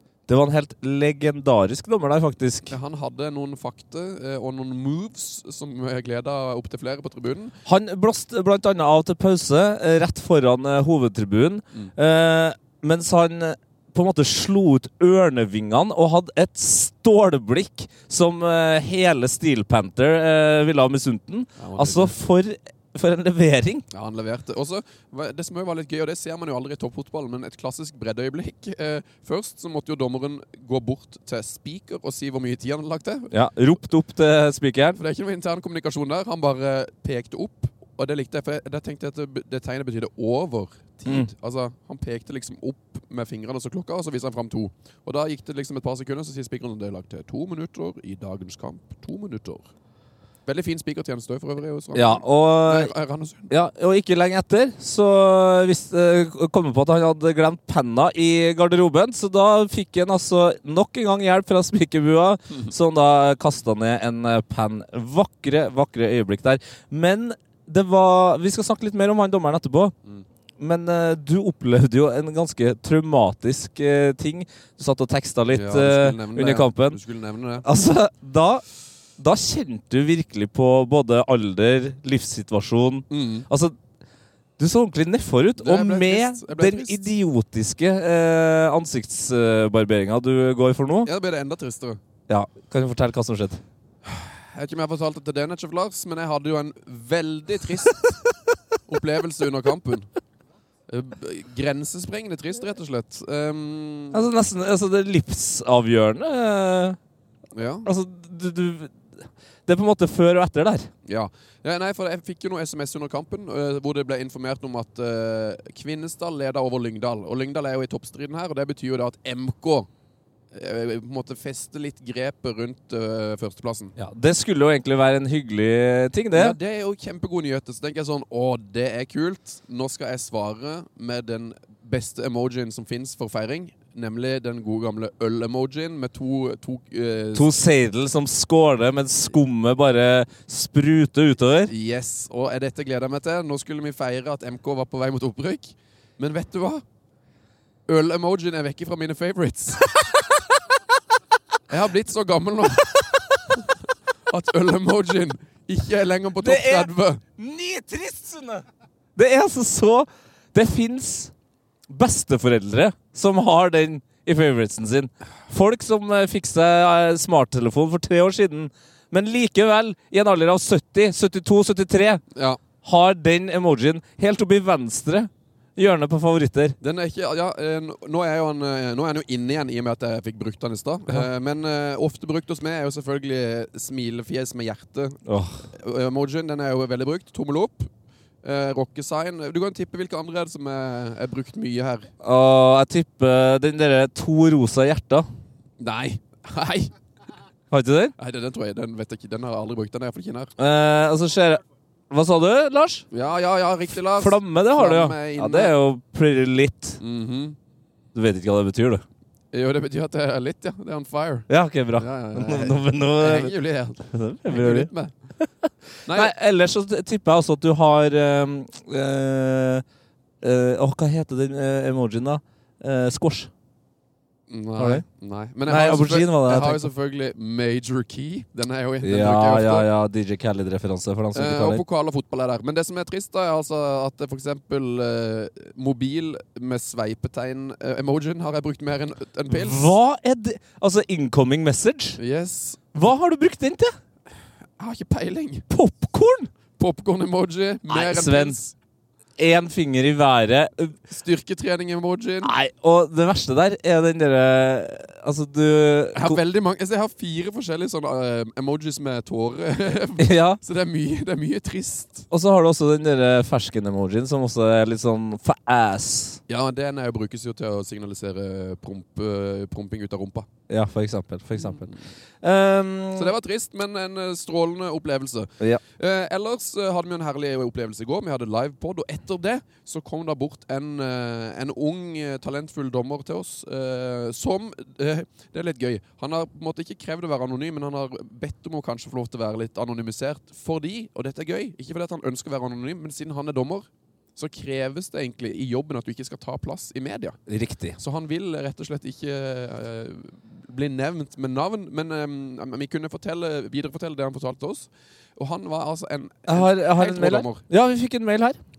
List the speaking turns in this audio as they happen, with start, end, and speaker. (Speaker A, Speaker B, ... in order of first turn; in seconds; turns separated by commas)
Speaker A: 0.3-2.7, Speaker B: 2.7-7.6, Speaker A: 7.7-23.8, Speaker B: 21.6-22.1, Speaker B: 23.9-33.3, Speaker A: 33.3-35.0, Speaker B: 34.9-49.7, Speaker B: 50.5-53.5, Speaker A: 51.9-52.9, Speaker A: 53.5-69.9, Speaker A: 70.6-77.0, Speaker B: 75.5-77.6, Speaker A: 77.6-78.6, Speaker A: 79.2-83.8, Speaker B: 83.1-83.5, Speaker A: 84.6-91.1, Speaker B: 85.6-87.0, Speaker B: 91.0-92.0, Speaker A: 92.3-93.6, Speaker B: 94.0-98.1, Speaker B: 98.9-100.1, Speaker B: 100.9-104.2, Speaker A: 104.1-107.0, Speaker B: 107.5-107.9, Speaker A: 107.8-110.9, Speaker B: 111.0-119.9, Speaker B: 120.5-123.9, Speaker A: 124.0-126.6, Speaker B: 126.3-137.5, Speaker A: 137.3-141.7, Speaker B: 141.7-146.8, Speaker B: 147.9-149.9, Speaker B: 151.7-153.0, Speaker B: 154.3-157.2, Speaker A: 156.4-158.6, Speaker A: 159.2-161.3, Speaker A: 161.9-172.2, Speaker B: 172.3-172.6, Speaker A: 172.8-176.8, Speaker B: 176.8-187.9, Speaker A: 185.2-185.6, Speaker B: 188.4-192.1, Speaker A: 192.2-195.2, Speaker B: 195.8-196.9, Speaker A: 197.7-198.1, Speaker B: 198.2-200.5, Speaker A: 200.6-203.1, Speaker B: 203.1-205.7, Speaker A: 204.1-207.0, Speaker B: 207.0-207.6, Speaker A: 208.1-209.0, Speaker B: 209.5-215.1, Speaker A: 211.5-213.5, Speaker A: 214.1-214.9, Speaker A: 215.4-219.8, Speaker B: 216.1-216.3, Speaker A: 220.4-223.5, Speaker B: 224.5-229.9, Speaker A: 224.8-225.0, Speaker A: 225.7-226.9, Speaker A: 229.0-231.8, Speaker B: 231.3-239.9, Speaker A: 239.5-242.2, Speaker B: 242.2-242.8, Speaker A: 242.9-243.9, Speaker B: 244.8-245.7, Speaker A: 245.7-246.5, Speaker B: 246.8-248.7, Speaker A: 247.9-248.6, Speaker A: 249.4-250.9, Speaker B: 251.1-252.5, Speaker A: 252.4-256.4, Speaker B: 256.1-262.3, Speaker A: 260.2-260.6, Speaker A: 262.3-266.4, Speaker B: 266.5-270.5, Speaker A: 270.7-271.9, Speaker B: 271.6-272.0, Speaker A: 272.4-273.3, Speaker B: 273.1-297.4, Speaker A: 297.5-298.0, Speaker B: 298.0-307.6, Speaker A: 306.5-308.6